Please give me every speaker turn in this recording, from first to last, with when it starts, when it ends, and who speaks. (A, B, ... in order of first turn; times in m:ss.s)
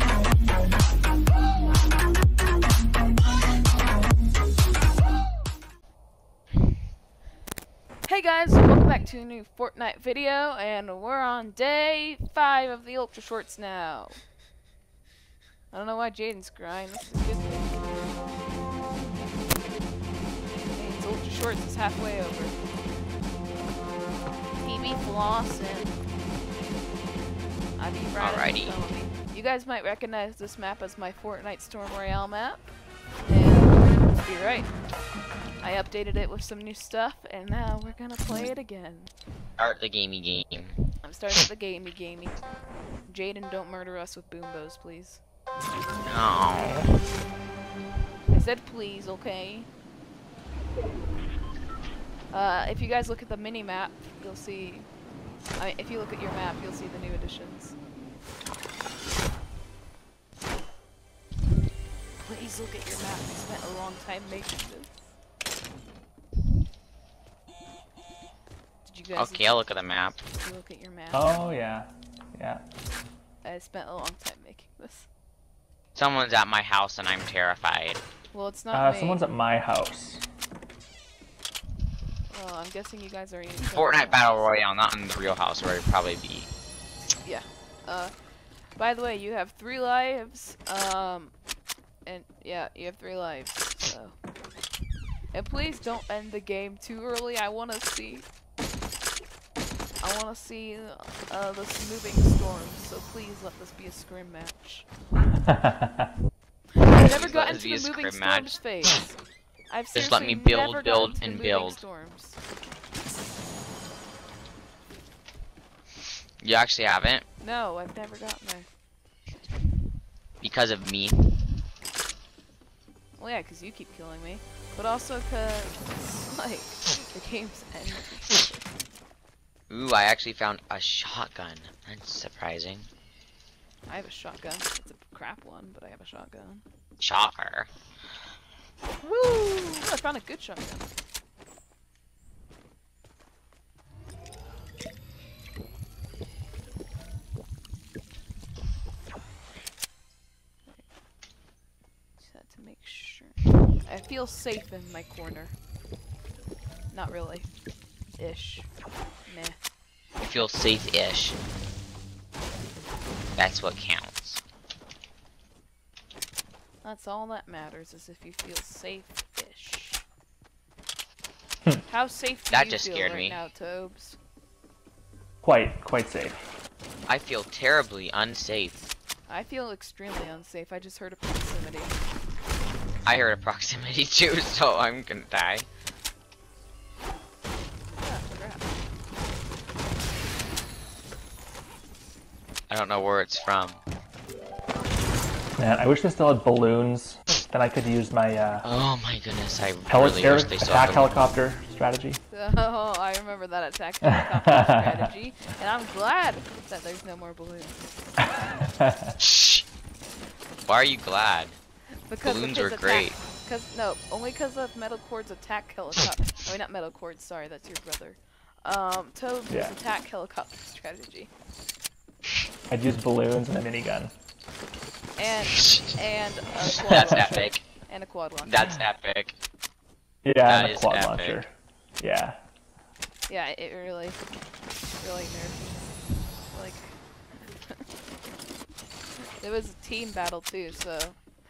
0:08.0-0:14.2 A
0:15.7-0:17.8 A
0:20.7-0:22.6 A
0:24.6-0:26.0 A
0:27.8-0:32.7 A
0:28.2-0:28.8 B
0:33.3-0:34.8 A
0:35.6-0:39.1 A
0:39.6-0:40.8 B
0:41.0-0:42.4 A
0:43.1-0:45.2 A
0:46.0-0:47.0 B
0:48.3-0:49.7 A
0:52.3-0:54.9 A
0:55.6-0:57.8 A
1:02.2-1:05.1 A
1:08.8-1:11.4 A
1:09.2-1:10.2 B
1:11.1-1:12.6 C
1:13.4-1:15.1 A
1:16.0-1:18.0 B
1:18.3-1:19.3 A
1:18.7-1:20.2 C
1:22.3-1:24.5 A
1:23.6-1:26.5 B
1:27.2-1:28.1 A
1:28.8-1:31.3 A
1:32.1-1:34.2 A
1:35.3-1:38.3 A
1:40.0-1:44.9 A
1:45.5-1:45.7 C
1:46.8-1:52.4 A
1:46.9-1:48.5 B
1:50.0-1:51.8 B
1:56.4-1:57.2 B
1:57.4-1:58.7 A
2:00.4-2:01.4 B
2:03.2-2:08.6 A
2:09.7-2:12.9 B
2:13.9-2:16.6 A
2:17.0-2:17.7 B
2:19.0-2:20.9 A
2:32.2-2:35.5 A
2:36.9-2:37.5 A
2:38.2-2:38.7 A
2:39.3-2:39.6 A
2:40.2-2:41.4 B
2:43.4-2:44.4 B
2:46.8-2:50.0 A
2:51.9-2:54.2 A
2:52.5-2:53.4 B
2:55.4-2:56.4 C
2:57.1-2:58.8 B
2:59.3-3:02.0 A
3:03.1-3:05.7 B
3:08.0-3:08.7 A
3:12.7-3:13.8 B
3:15.6-3:18.6 C
3:18.6-3:21.2 B
3:19.9-3:22.2 C
3:22.3-3:28.6 A
3:24.0-3:24.8 C
3:28.8-3:29.1 C
3:29.2-3:29.6 B
3:30.7-3:31.6 B
3:32.1-3:41.3 A
3:32.2-3:33.2 B
3:39.5-3:39.8 C
3:42.7-3:44.1 C
3:45.2-3:48.7 A
3:45.6-3:45.9 B
3:46.7-3:47.6 B
3:48.4-3:49.4 B
3:50.2-3:52.4 C
3:50.4-3:51.4 B
3:53.3-3:54.2 A
3:55.0-3:55.9 A
3:56.5-3:57.8 A
3:59.4-4:01.2 A